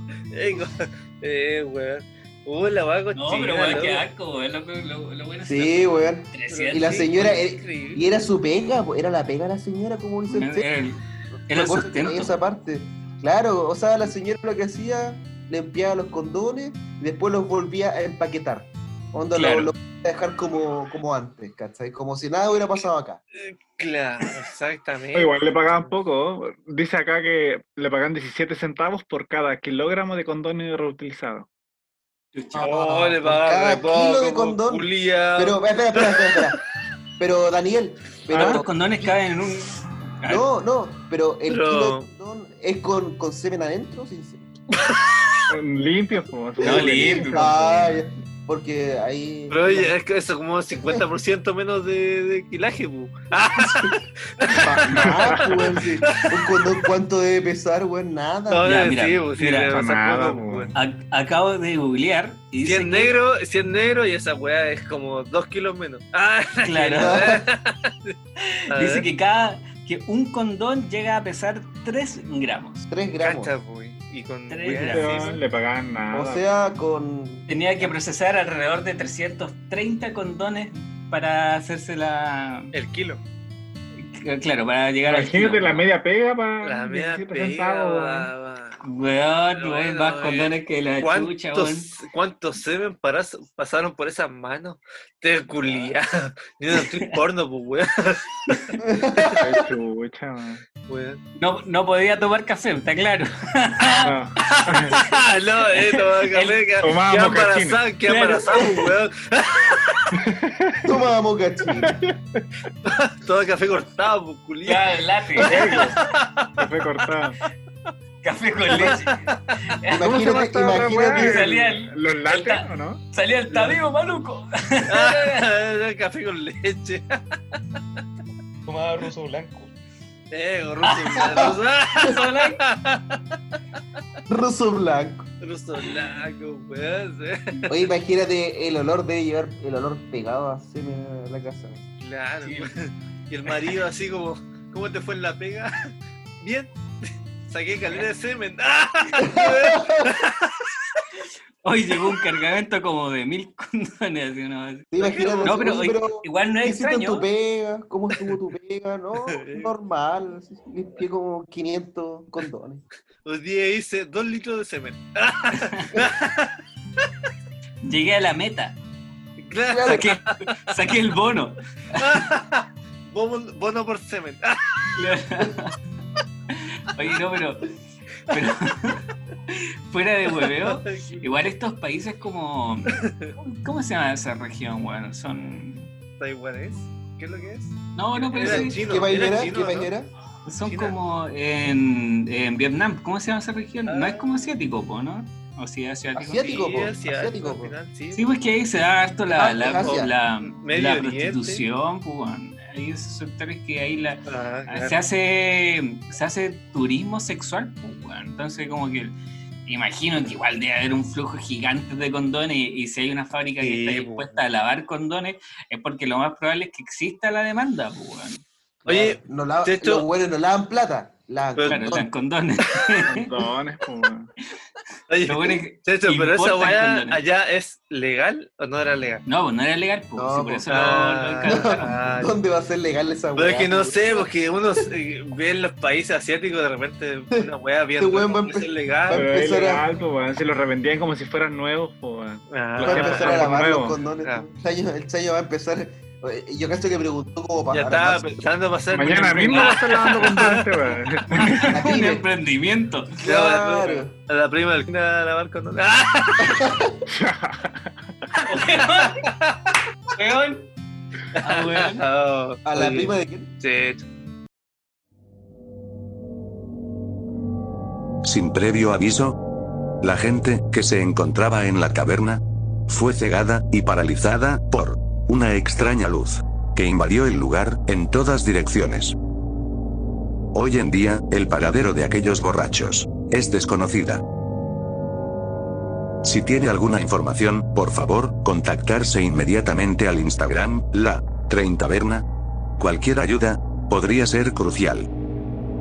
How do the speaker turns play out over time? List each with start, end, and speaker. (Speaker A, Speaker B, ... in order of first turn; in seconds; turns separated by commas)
Speaker A: 0.3-4.0, Speaker B: 3.1-7.4, Speaker C: 5.4-10.7, Speaker A: 6.5-8.1, Speaker B: 10.3-12.3, Speaker C: 11.5-23.2, Speaker B: 19.3-19.7, Speaker A: 23.3-25.4, Speaker D: 25.1-31.5, Speaker B: 32.4-32.7, Speaker C: 32.5-36.6, Speaker A: 32.5-36.4, Speaker C: 37.2-39.1, Speaker B: 38.3-40.5, Speaker C: 40.3-44.5, Speaker A: 41.5-42.1, Speaker A: 44.8-45.1, Speaker D: 45.5-48.0, Speaker B: 46.6-47.5, Speaker C: 46.6-50.0, Speaker A: 49.5-56.6, Speaker C: 53.5-54.0, Speaker C: 54.5-58.8, Speaker D: 54.9-55.5, Speaker A: 58.5-60.7, Speaker B: 58.6-59.8, Speaker D: 59.7-60.8, Speaker B: 60.7-63.1, Speaker A: 62.6-68.1, Speaker B: 66.6-67.3, Speaker C: 67.0-67.4, Speaker B: 68.4-72.9, Speaker A: 68.7-69.0, Speaker C: 72.9-73.5, Speaker A: 73.2-75.4, Speaker B: 74.5-75.4, Speaker D: 74.7-76.4, Speaker C: 76.1-77.9, Speaker B: 77.5-82.7, Speaker A: 82.7-83.2, Speaker B: 84.0-85.8, Speaker D: 85.1-88.3, Speaker A: 86.6-88.8, Speaker B: 88.8-91.9, Speaker A: 89.6-99.3, Speaker B: 95.6-95.9, Speaker B: 96.7-97.1, Speaker B: 98.5-98.8, Speaker C: 98.8-99.7, Speaker D: 99.4-100.6, Speaker A: 100.9-101.2, Speaker B: 101.4-106.6, Speaker D: 104.0-104.9, Speaker A: 104.5-110.1, Speaker D: 106.8-107.8, Speaker B: 108.1-108.9, Speaker D: 110.1-111.0, Speaker C: 110.8-112.0, Speaker D: 111.6-112.4, Speaker A: 112.8-116.5, Speaker B: 114.7-115.8, Speaker D: 115.4-116.0, Speaker D: 116.6-117.4, Speaker B: 118.2-120.2, Speaker A: 118.8-119.4, Speaker C: 119.9-121.6, Speaker D: 119.9-123.0, Speaker B: 121.1-125.5, Speaker A: 124.9-127.3, Speaker D: 129.0-129.4, Speaker A: 130.3-133.2, Speaker B: 130.8-132.6, Speaker C: 131.2-131.6, Speaker C: 134.3-135.3, Speaker A: 135.4-137.8, Speaker C: 137.7-141.8, Speaker A: 142.0-151.0, Speaker B: 142.4-142.7, Speaker C: 149.2-150.1, Speaker B: 151.6-154.9, Speaker C: 154.9-162.8, Speaker A: 155.0-155.7, Speaker B: 155.4-157.3, Speaker A: 159.2-159.7, Speaker A: 163.2-166.6, Speaker B: 165.5-166.0, Speaker B: 167.8-168.8, Speaker A: 169.4-170.8, Speaker C: 169.7-170.1, Speaker B: 169.8-172.2, Speaker A: 171.9-175.0, Speaker B: 174.9-175.7, Speaker B: 176.5-177.7, Speaker B: 178.3-185.9, Speaker A: 180.3-181.2, Speaker A: 182.9-183.3, Speaker A: 186.2-189.9, Speaker B: 187.9-188.8, Speaker C: 188.3-190.1, Speaker B: 190.4-196.6, Speaker A: 190.6-190.9, Speaker A: 193.9-194.5, Speaker C: 196.1-197.7, Speaker A: 196.4-198.3, Speaker B: 198.1-218.4, Speaker C: 199.4-200.1, Speaker A: 199.4-201.6, Speaker A: 204.2-204.9, Speaker A: 213.6-214.4, Speaker C: 218.8-222.1, Speaker A: 218.8-220.0, Speaker A: 221.6-222.0, Speaker B: 221.7-223.3, Speaker D: 223.1-224.3, Speaker A: 225.1-229.2, Speaker B: 225.2-227.2, Speaker B: 229.2-232.0, Speaker C: 230.2-230.7, Speaker A: 230.7-232.3, Speaker C: 231.4-234.3, Speaker A: 233.3-239.3, Speaker C: 238.0-239.8, Speaker D: 239.1-243.9, Speaker A: 242.5-243.6, Speaker C: 242.8-248.2, Speaker A: 247.7-251.2, Speaker D: 248.9-251.7, Speaker B: 251.3-253.2, Speaker C: 251.6-252.2, Speaker C: 253.2-254.1, Speaker A: 253.2-256.6, Speaker C: 256.4-257.0, Speaker D: 257.1-258.0, Speaker B: 258.4-259.3, Speaker A: 258.8-259.6, Speaker B: 260.1-260.7, Speaker A: 261.4-264.0, Speaker B: 261.4-262.0, Speaker C: 262.6-263.5, Speaker E: 268.2-269.4, Speaker E: 270.0-279.1, Speaker E: 280.5-284.2, Speaker E: 286.2-292.2, Speaker E: 292.8-295.1